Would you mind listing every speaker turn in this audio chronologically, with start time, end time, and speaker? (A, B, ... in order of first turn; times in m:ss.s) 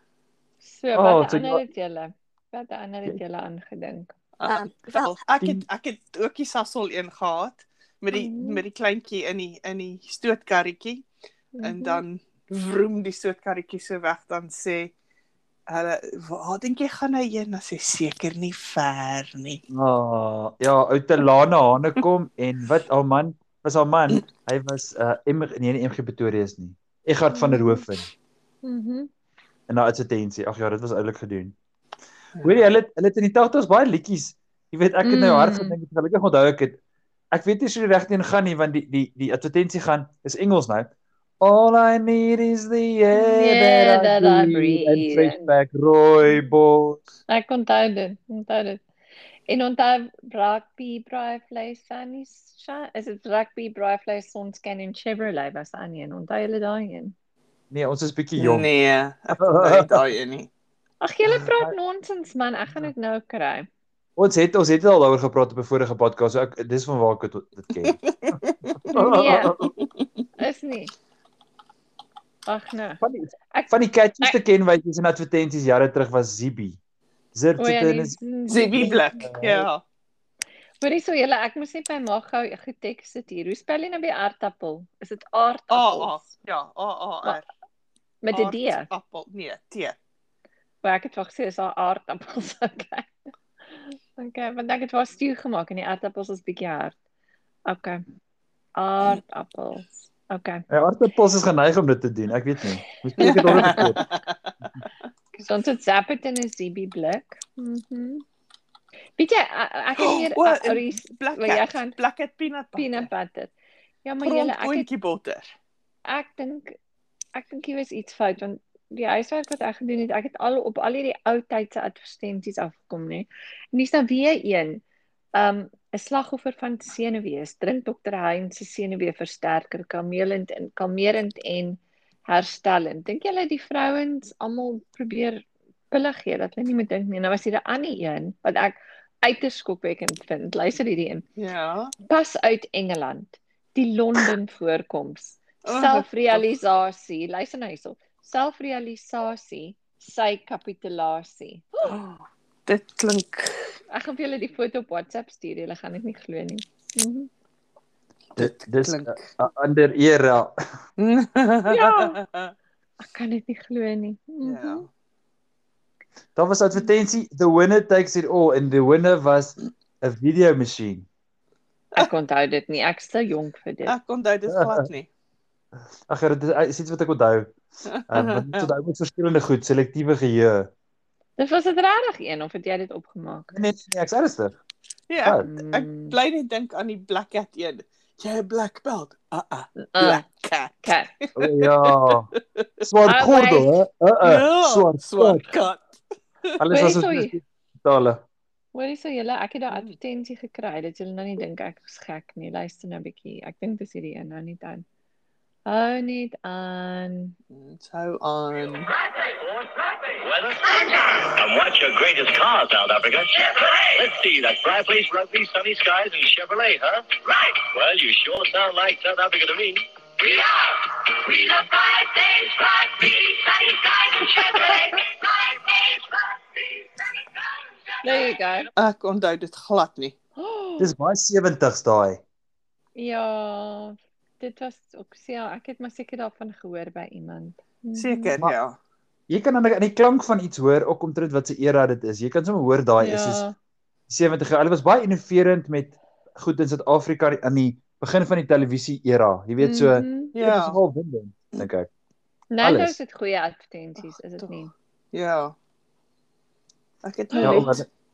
0:00.6-0:04.2 A
0:00.9-0:01.6 B
0:04.4-0:11.0 C
0:08.1-0:08.6 A
0:11.6-0:12.0 A
0:11.6-0:14.9 C
0:15.7-0:19.6 C
0:19.7-0:28.1 B
0:27.3-0:27.9 A
0:28.6-0:29.1 A
0:29.7-0:31.6 B
0:32.4-0:36.8 B
0:35.0-0:35.8 A
0:37.3-0:47.0 B
0:43.1-0:45.5 A
0:47.3-0:48.8 A
0:49.5-0:57.2 A
0:57.7-0:58.7 B
0:58.4-1:00.5 C
0:59.3-1:00.0 B
1:01.0-1:03.7 A
1:01.4-1:01.7 B
1:04.2-1:09.7 B
1:07.9-1:10.0 C
1:08.9-1:09.6 A
1:10.4-1:10.9 A
1:12.5-1:13.0 A
1:13.0-1:16.8 B
1:13.5-1:14.4 A
1:17.3-1:18.2 B
1:17.6-1:19.1 A
1:18.5-1:19.8 C
1:18.8-1:19.7 B
1:20.8-1:26.3 A
1:25.7-1:27.5 C
1:28.2-1:28.9 A
1:28.3-1:30.0 C
1:30.8-1:33.1 A
1:34.2-1:37.0 A
1:37.7-1:38.0 A
1:38.8-1:40.6 A
1:40.7-1:44.0 B
1:43.2-1:43.9 A
1:43.2-1:44.2 C
1:45.4-1:48.2 A
1:49.2-1:52.0 A
1:50.0-1:53.1 C
1:52.8-1:53.5 A
1:54.0-1:54.9 A
1:54.2-1:55.5 C
1:56.1-1:56.8 A
1:57.4-2:04.8 A
2:05.4-2:21.2 A
2:21.4-2:21.9 C
2:22.1-2:32.0 A
2:25.6-2:26.4 C
2:31.8-2:33.7 C
2:33.9-2:37.3 A
2:38.4-2:39.3 C
2:38.4-2:40.6 B
2:41.0-2:42.5 C
2:41.7-2:42.2 A
2:43.0-2:44.8 A
2:44.4-2:44.9 C
2:46.4-2:51.1 B
2:51.9-2:54.0 A
2:53.9-2:55.1 C
2:54.5-2:54.8 B
2:56.1-2:57.6 B
2:57.9-2:58.7 C
2:58.1-3:00.7 B
3:01.4-3:03.5 A
3:03.5-3:04.6 B
3:05.1-3:12.9 C
3:05.2-3:05.5 B
3:05.4-3:06.2 A
3:09.8-3:10.2 A
3:10.8-3:11.1 A
3:11.4-3:12.3 B
3:12.8-3:15.5 B
3:13.1-3:13.8 A
3:14.2-3:16.0 C
3:16.6-3:18.2 B
3:16.7-3:17.3 A
3:18.7-3:24.8 A
3:19.7-3:20.0 C
3:25.7-3:27.4 A
3:27.5-3:28.9 C
3:28.9-3:48.4 D
3:48.0-3:48.7 A
3:48.8-3:50.2 C
3:50.4-3:50.9 A
3:50.8-3:52.2 B
3:53.0-3:58.3 A
3:58.0-3:58.8 C
3:59.3-4:03.4 B
4:03.0-4:03.6 A
4:04.1-4:11.9 B
4:09.6-4:10.3 A
4:10.4-4:10.8 C
4:12.5-4:14.7 A
4:12.6-4:13.0 B
4:15.1-4:15.6 C
4:17.0-4:17.8 C
4:17.3-4:17.8 A
4:17.4-4:17.8 B